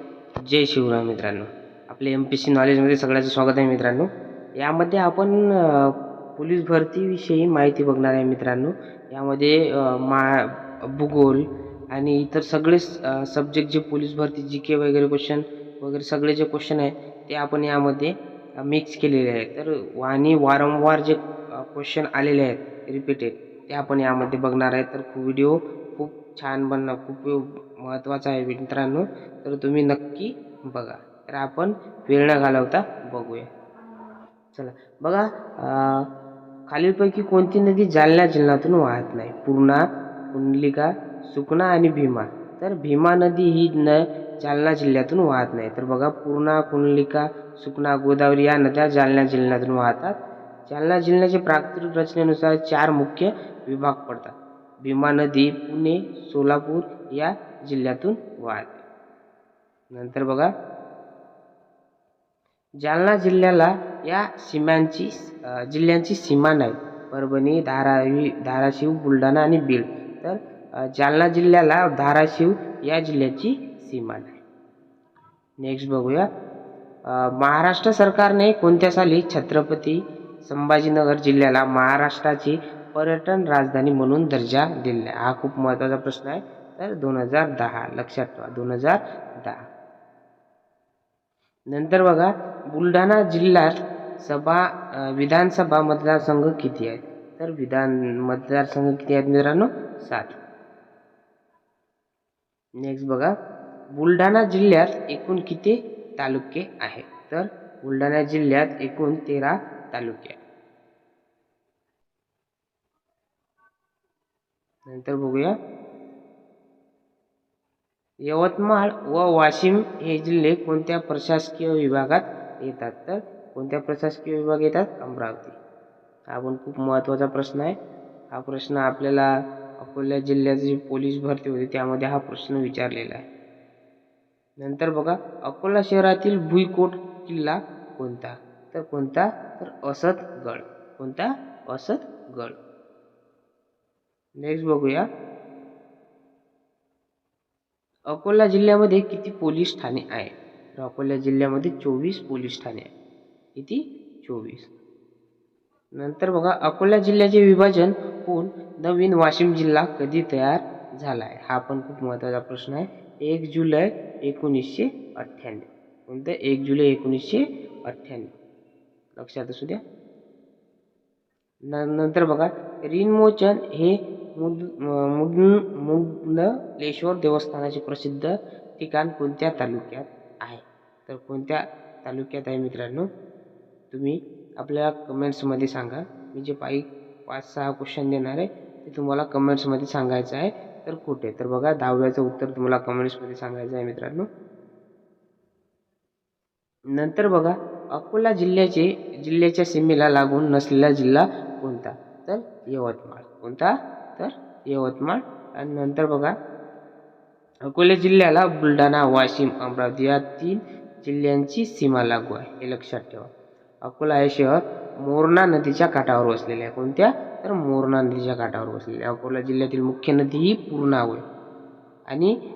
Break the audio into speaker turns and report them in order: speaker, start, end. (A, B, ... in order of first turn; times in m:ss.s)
0:00.5-0:04.1 A
0:04.6-0:33.5 A
0:34.5-0:36.0 A
0:36.7-0:39.8 A
0:40.3-0:50.1 A
0:50.7-0:58.8 A
0:59.9-1:00.5 A
1:02.8-1:10.4 A
1:11.0-1:14.4 A
1:15.6-1:16.3 A
1:17.1-1:29.6 A
1:31.7-1:40.3 A
1:42.8-1:43.3 A
1:44.0-1:50.4 A
1:54.9-1:55.5 A
1:58.3-2:05.6 A
2:06.3-2:07.8 A
2:08.3-2:13.2 A
2:14.6-2:22.6 A
2:24.4-2:25.0 A
2:28.1-2:32.9 A
2:33.6-2:34.7 A
2:36.0-2:48.3 A
2:49.2-2:49.8 A
2:51.7-3:03.1 A
3:03.9-3:14.3 A
3:16.9-3:26.3 A
3:27.7-3:33.3 A
3:33.8-3:41.2 A